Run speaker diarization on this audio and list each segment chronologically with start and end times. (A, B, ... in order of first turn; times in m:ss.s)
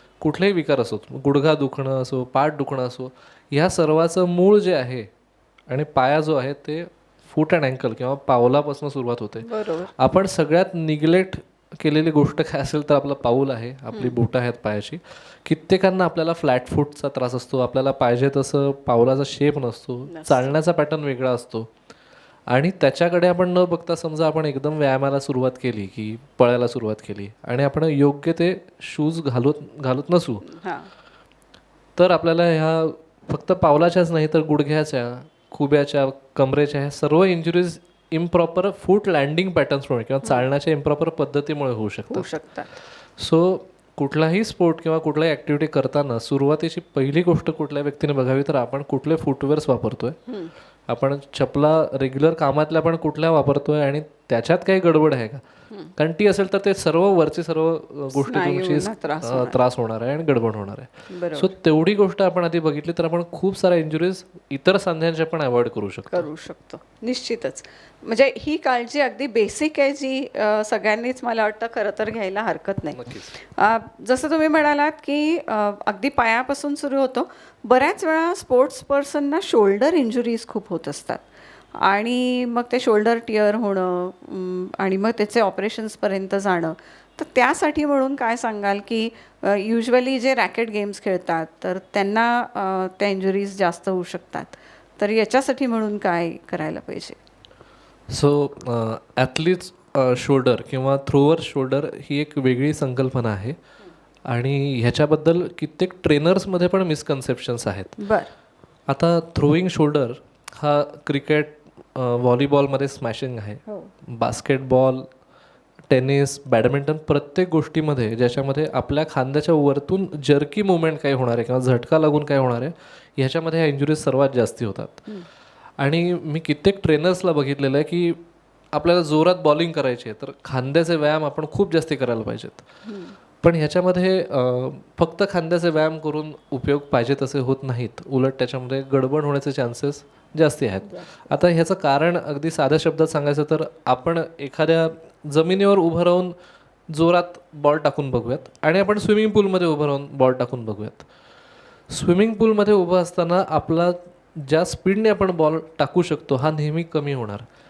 0:00.2-0:05.1 A
0:05.7-0:21.7 A
0:09.4-0:09.9 B
0:13.9-0:14.2 B
0:20.1-0:20.5 B
0:22.5-0:30.4 A
0:30.4-0:30.9 B
0:32.0-0:42.3 A
0:42.1-0:42.8 B
0:43.2-0:50.2 A
0:50.9-0:55.4 A
0:56.0-1:06.3 A
0:58.1-0:59.6 B
1:01.1-1:01.5 B
1:06.1-1:21.2 B
1:12.9-1:13.3 A
1:21.8-1:37.2 B
1:38.1-1:43.6 A
1:44.3-1:48.0 A
1:48.0-1:48.3 B
1:48.9-1:55.1 A
1:55.9-2:05.1 A
2:05.8-2:12.6 A
2:12.8-2:13.2 B
2:13.4-2:26.3 A
2:20.9-2:21.2 B
2:26.9-2:31.0 A
2:31.9-2:37.4 A